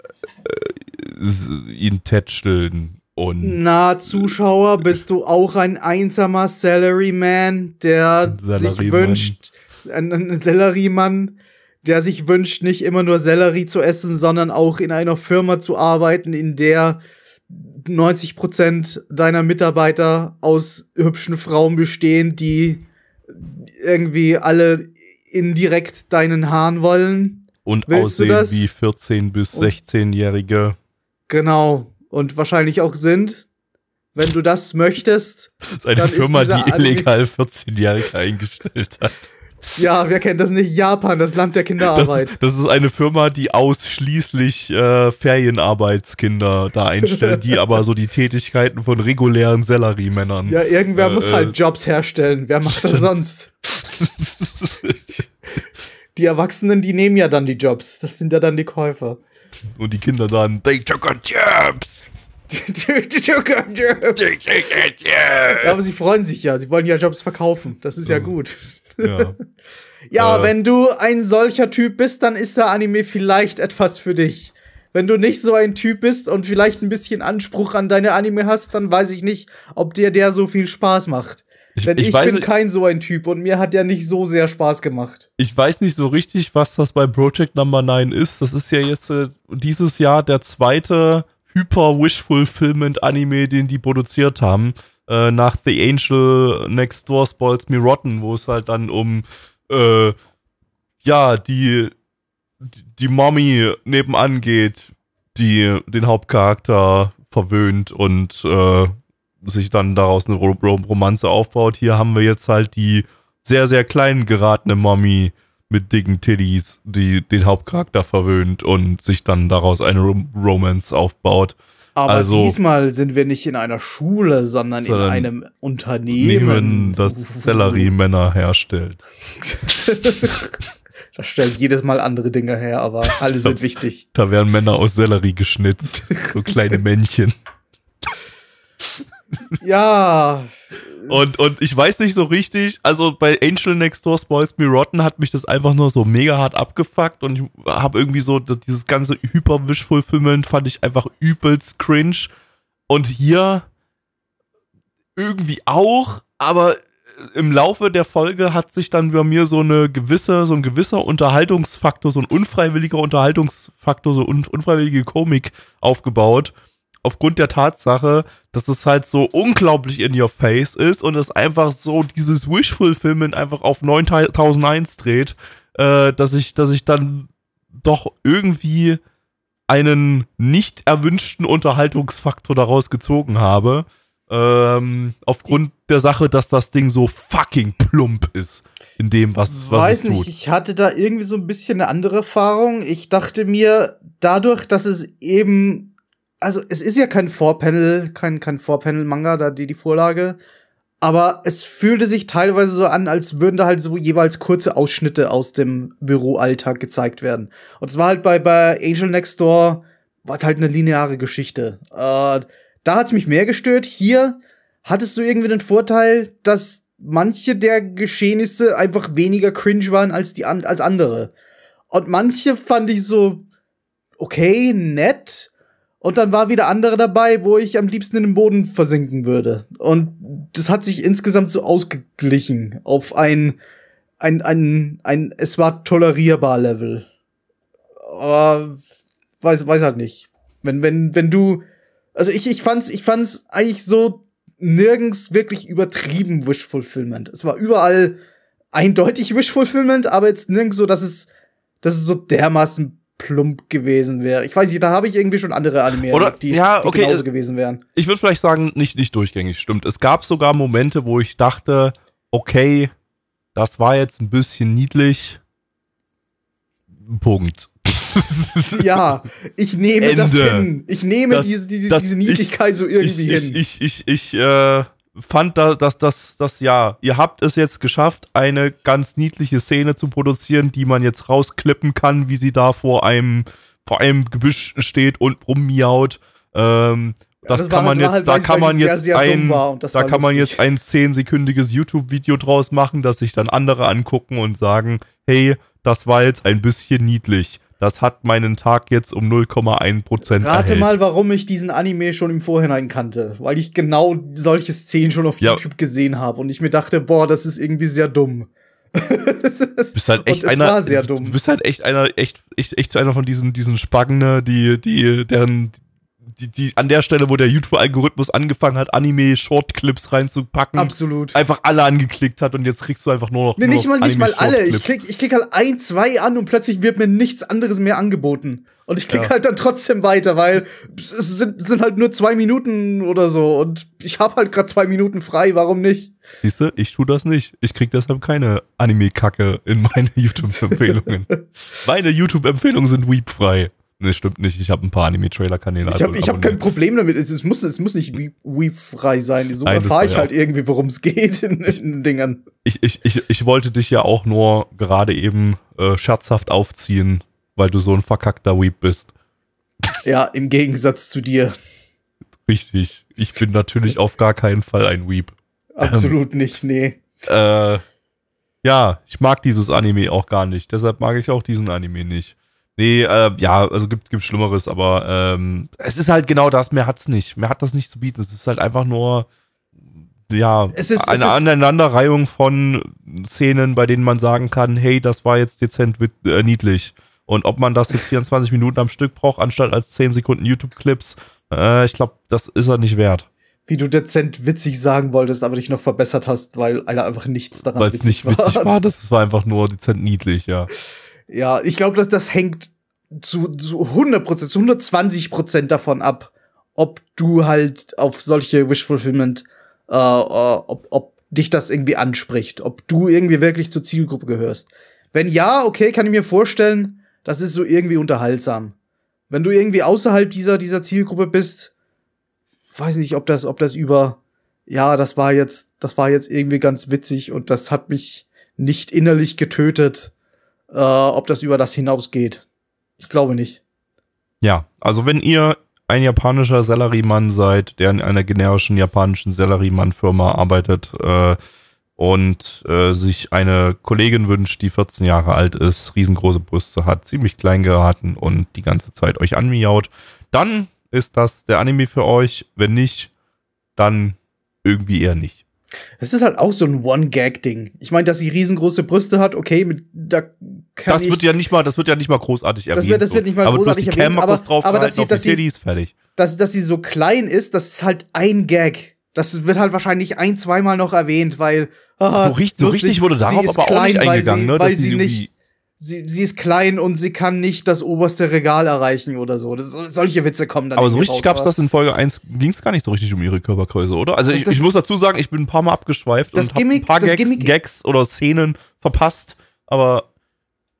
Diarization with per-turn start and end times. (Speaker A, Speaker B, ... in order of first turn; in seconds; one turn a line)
Speaker A: 0.4-3.6
Speaker B: 3.4-28.7
Speaker A: 8.3-9.3
Speaker A: 27.6-30.8
Speaker B: 31.3-33.4
Speaker B: 34.1-37.1
Speaker A: 35.7-39.3
Speaker B: 39.8-42.3
Speaker A: 41.9-51.5
Speaker B: 47.1-47.4
Speaker B: 50.4-53.5
Speaker A: 52.6-53.0
Speaker A: 53.6-55.1
Speaker B: 56.1-59.2
Speaker A: 59.8-62.1
Speaker B: 62.5-64.2
Speaker A: 64.2-65.8
Speaker B: 65.6-69.3
Speaker A: 69.0-69.3
Speaker B: 70.1-85.3
Speaker A: 70.1-70.5
Speaker A: 81.8-82.5
Speaker A: 85.4-100.2
Speaker A: 101.0-101.9
Speaker A: 102.6-122.6
Speaker B: 122.0-127.9
Speaker A: 124.8-125.3
Speaker A: 126.1-129.0
Speaker B: 129.4-130.5
Speaker B: 131.1-134.0
Speaker A: 133.3-133.5
Speaker A: 134.1-137.3
Speaker B: 135.9-136.4
Speaker B: 139.6-141.4
Speaker A: 141.1-152.3
Speaker A: 152.9-153.7
Speaker A: 155.2-179.0
Speaker A: 179.7-190.3
Speaker B: 189.5-200.4
Speaker B: 201.0-221.3
Speaker B: 221.9-223.4
Speaker B: 224.2-225.5
Speaker B: 226.0-233.6
Speaker B: 234.2-237.1
Speaker B: 238.0-238.8
Speaker B: 239.4-241.6
Speaker B: 242.1-248.2
Speaker B: 248.7-251.3
Speaker B: 251.8-257.8
Speaker A: 256.1-257.2
Speaker A: 257.9-262.9
Speaker A: 263.5-265.4
Speaker A: 267.0-268.9
Speaker B: 268.7-273.6
Speaker A: 270.0-270.7
Speaker A: 271.3-272.5
Speaker A: 273.0-300.9
Speaker B: 287.4-290.6
Speaker B: 300.3-311.4
Speaker A: 309.9-315.8
Speaker A: 316.4-324.9
Speaker B: 320.7-321.4
Speaker B: 323.6-336.1
Speaker A: 336.4-346.6
Speaker B: 340.6-341.0
Speaker B: 345.9-352.4
Speaker A: 349.6-350.3
Speaker A: 352.6-359.1
Speaker B: 360.0-361.5
Speaker A: 362.5-366.1
Speaker B: 365.8-367.2
Speaker A: 367.2-367.8
Speaker A: 368.6-379.3
Speaker A: 380.3-393.3
Speaker B: 380.7-381.4
Speaker B: 393.7-398.7
Speaker A: 397.8-400.7
Speaker B: 401.3-418.7
Speaker B: 419.3-421.7
Speaker B: 422.7-430.1
Speaker B: 430.7-432.4
Speaker B: 433.0-433.6
Speaker A: 434.4-441.4
Speaker A: 442.0-453.1
Speaker A: 453.8-455.4
Speaker B: 456.0-461.2
Speaker A: 460.9-465.9
Speaker B: 462.7-465.4
Speaker B: 466.1-475.3
Speaker A: 472.2-475.3
Speaker B: 475.8-481.5
Speaker A: 480.8-490.1
Speaker B: 484.3-484.6
Speaker B: 486.3-487.5